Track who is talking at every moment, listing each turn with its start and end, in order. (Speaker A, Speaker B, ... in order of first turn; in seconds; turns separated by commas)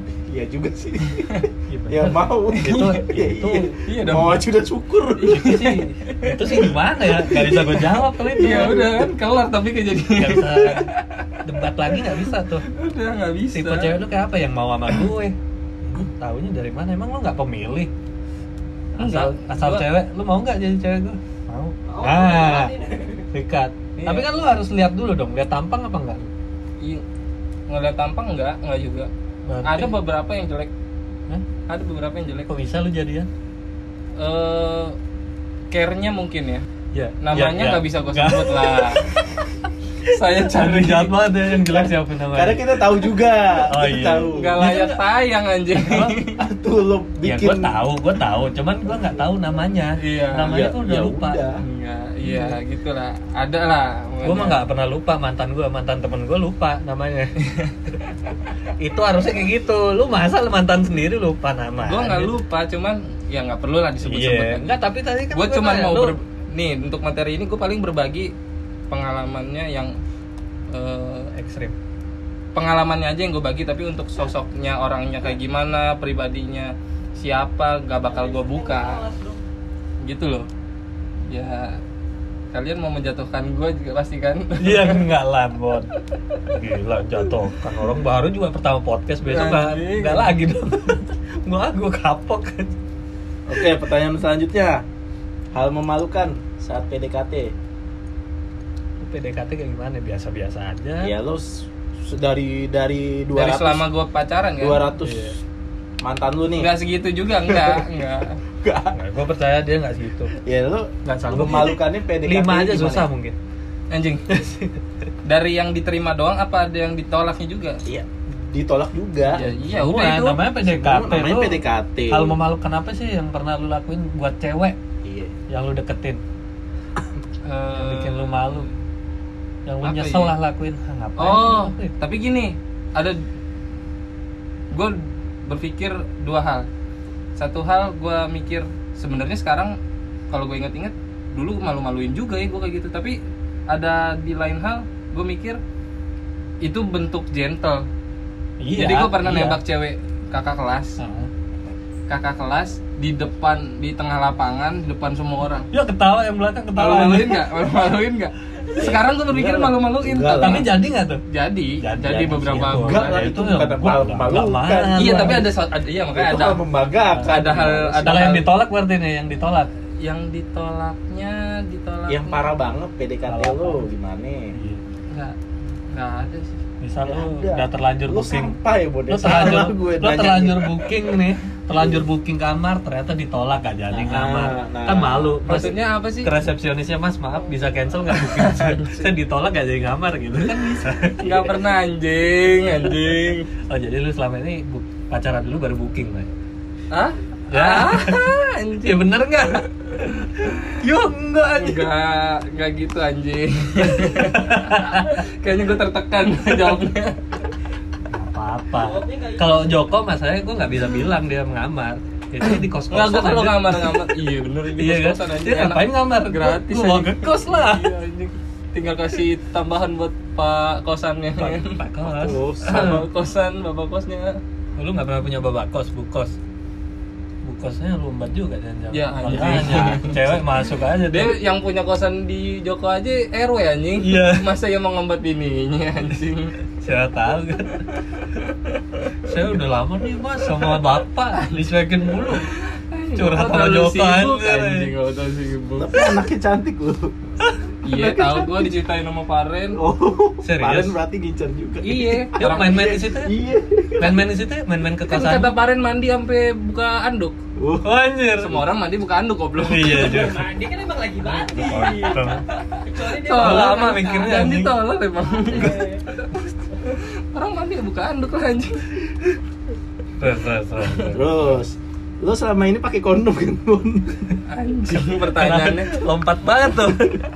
Speaker A: 0.3-5.5, Speaker B: 1.7-3.8, Speaker C: 2.5-3.0, Speaker C: 3.9-4.4, Speaker C: 5.2-6.7, Speaker B: 5.3-9.0, Speaker A: 7.1-9.1, Speaker C: 8.3-11.4, Speaker B: 10.1-10.9, Speaker B: 11.4-12.7, Speaker C: 12.1-13.9, Speaker B: 13.5-17.9, Speaker B: 18.9-22.8, Speaker C: 19.0-19.9, Speaker D: 21.9-23.2, Speaker B: 23.3-26.3, Speaker C: 23.9-24.3, Speaker C: 27.7-29.1, Speaker B: 29.4-29.9, Speaker C: 29.6-30.7, Speaker C: 31.7-32.5, Speaker B: 32.5-33.3, Speaker C: 34.2-35.0, Speaker C: 35.7-36.6, Speaker B: 36.9-39.2, Speaker C: 37.2-39.1, Speaker C: 40.0-41.1, Speaker B: 40.1-43.0, Speaker A: 41.6-44.5, Speaker B: 43.6-45.0, Speaker C: 44.3-46.4, Speaker B: 45.7-46.2, Speaker A: 46.4-47.8, Speaker B: 47.2-51.4, Speaker C: 50.0-50.6, Speaker A: 50.5-51.6, Speaker C: 51.6-54.6, Speaker B: 52.2-52.6, Speaker B: 54.2-57.4, Speaker B: 58.8-62.3, Speaker C: 61.9-64.7, Speaker B: 64.0-66.1, Speaker C: 65.3-68.3, Speaker C: 68.9-69.9, Speaker C: 70.7-71.3, Speaker B: 71.3-71.8, Speaker C: 72.5-79.0, Speaker D: 78.1-79.4, Speaker C: 80.0-80.5, Speaker C: 81.3-81.8, Speaker C: 82.5-85.1, Speaker B: 84.6-85.9, Speaker B: 86.5-92.8, Speaker C: 89.2-90.3, Speaker A: 93.5-94.8, Speaker A: 95.5-97.5, Speaker B: 99.0-101.1, Speaker A: 101.0-103.9, Speaker C: 103.3-104.8, Speaker A: 104.6-105.4, Speaker B: 105.0-105.4, Speaker A: 106.0-106.7, Speaker C: 106.6-108.4, Speaker A: 107.4-107.8, Speaker A: 108.6-109.0, Speaker B: 108.9-110.3, Speaker A: 110.4-113.1, Speaker B: 111.0-113.4, Speaker C: 113.9-114.2, Speaker C: 115.2-117.8, Speaker A: 117.9-119.4, Speaker C: 119.3-120.4, Speaker B: 119.3-124.8, Speaker A: 120.7-122.4, Speaker A: 125.0-125.3, Speaker B: 125.5-126.2, Speaker C: 127.4-128.7, Speaker B: 127.7-128.7, Speaker B: 129.7-131.9, Speaker C: 129.8-130.3, Speaker C: 131.2-133.2, Speaker C: 134.7-136.7, Speaker C: 137.4-139.8, Speaker C: 140.3-143.2, Speaker C: 143.7-145.6, Speaker C: 146.6-147.9, Speaker B: 148.6-149.6, Speaker C: 148.7-151.0, Speaker B: 151.0-151.3, Speaker C: 152.1-155.7, Speaker B: 155.7-157.5, Speaker C: 156.8-160.7, Speaker A: 158.8-160.7, Speaker B: 160.4-161.2, Speaker C: 161.3-163.4, Speaker B: 161.8-165.5, Speaker A: 162.6-165.5, Speaker C: 164.9-166.6, Speaker A: 166.1-168.4, Speaker C: 167.2-168.5, Speaker B: 168.0-169.7, Speaker C: 170.0-172.5, Speaker A: 172.1-174.6, Speaker B: 173.3-173.9, Speaker B: 174.5-174.8, Speaker C: 175.1-175.4, Speaker C: 175.9-176.6, Speaker B: 176.8-178.6, Speaker A: 177.0-180.7, Speaker B: 179.1-191.5, Speaker A: 181.7-182.0, Speaker A: 183.9-185.4, Speaker C: 185.4-186.3, Speaker C: 188.1-189.1, Speaker C: 191.2-193.5, Speaker B: 192.7-196.2, Speaker C: 196.9-199.6, Speaker B: 197.5-199.7, Speaker B: 200.8-201.9, Speaker C: 201.6-207.3, Speaker B: 204.0-205.2, Speaker B: 208.1-214.1, Speaker D: 208.8-209.9, Speaker C: 212.4-224.4, Speaker B: 214.8-217.9, Speaker B: 221.4-223.1, Speaker A: 222.1-223.0, Speaker B: 224.8-226.4, Speaker B: 227.4-231.4, Speaker C: 228.9-230.4, Speaker C: 231.1-236.5, Speaker B: 234.0-234.5, Speaker B: 236.8-237.9, Speaker C: 238.2-239.1, Speaker B: 239.2-242.5, Speaker C: 242.2-246.1, Speaker B: 243.1-244.9, Speaker A: 245.8-247.1, Speaker C: 247.8-249.8, Speaker A: 247.9-248.7, Speaker A: 249.8-254.3, Speaker B: 250.4-250.9, Speaker C: 251.8-252.9, Speaker B: 252.4-253.4, Speaker B: 254.0-255.5, Speaker C: 255.1-257.4, Speaker A: 257.6-257.9, Speaker B: 257.8-258.6, Speaker C: 258.4-260.3, Speaker B: 259.6-260.5, Speaker D: 259.9-264.4, Speaker B: 261.4-262.4, Speaker C: 262.9-268.9, Speaker B: 263.4-264.8, Speaker D: 265.2-266.1, Speaker B: 270.2-271.6, Speaker A: 271.1-274.4, Speaker C: 274.5-276.0, Speaker B: 274.9-277.2